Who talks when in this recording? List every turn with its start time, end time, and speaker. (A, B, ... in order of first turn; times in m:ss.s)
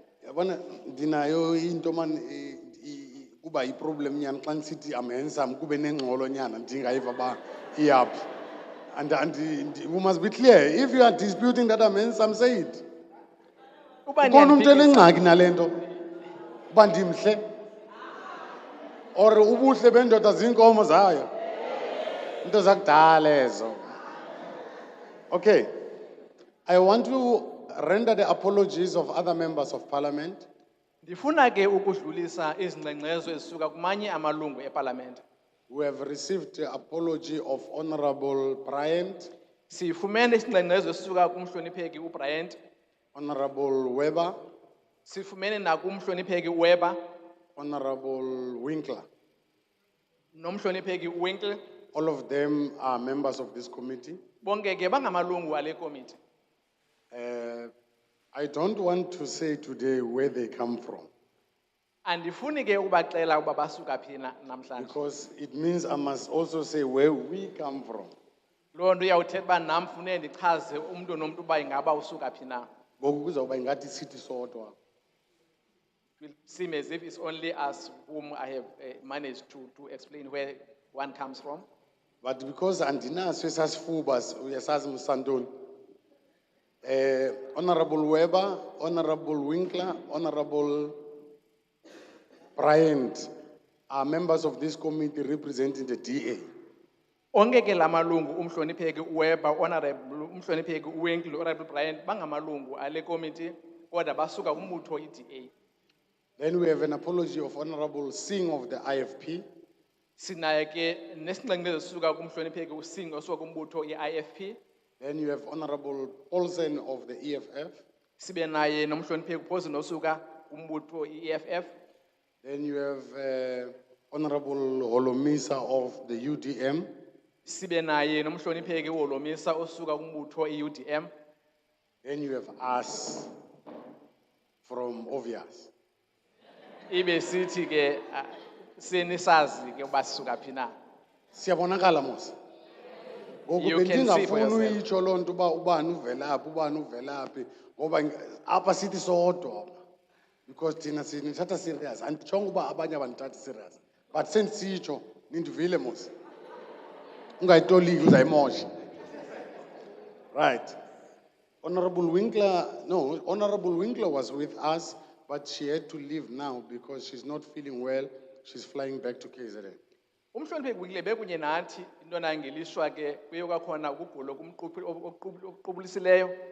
0:00.2-0:08.2 A
0:08.9-0:12.8 A
0:14.1-0:15.2 B
0:14.2-0:15.8 A
0:16.7-0:17.4 A
0:19.2-0:21.3 A
0:22.4-0:23.8 A
0:25.3-0:25.7 A
0:26.7-0:30.5 A
0:31.0-0:35.2 B
0:35.7-0:39.3 A
0:39.7-0:42.6 B
0:43.1-0:44.3 A
0:45.1-0:47.0 B
0:47.6-0:49.1 A
0:50.4-0:51.6 B
0:51.9-0:54.2 A
0:54.4-0:56.2 B
0:57.1-0:57.7 A
0:58.3-1:01.1 A
1:02.1-1:05.0 B
1:04.8-1:08.1 A
1:08.8-1:12.7 B
1:13.0-1:14.8 A
1:16.2-1:21.6 B
1:22.2-1:25.5 A
1:26.8-1:31.0 A
1:32.6-1:33.3 A
1:33.9-1:36.4 A
1:37.3-1:45.5 B
1:46.4-1:49.4 A
1:50.2-1:54.6 B
1:55.0-1:57.8 A
1:58.2-2:01.7 B
2:02.4-2:06.9 A
2:07.5-2:11.1 B
2:12.0-2:13.3 A
2:14.6-2:15.7 A
2:16.9-2:20.7 B
2:21.3-2:22.3 A
2:23.5-2:29.8 A
2:23.6-2:24.8 B
2:30.5-2:36.1 A
2:37.4-2:38.7 A
2:40.3-2:40.8 A
2:41.6-2:49.8 A
2:50.3-2:56.4 B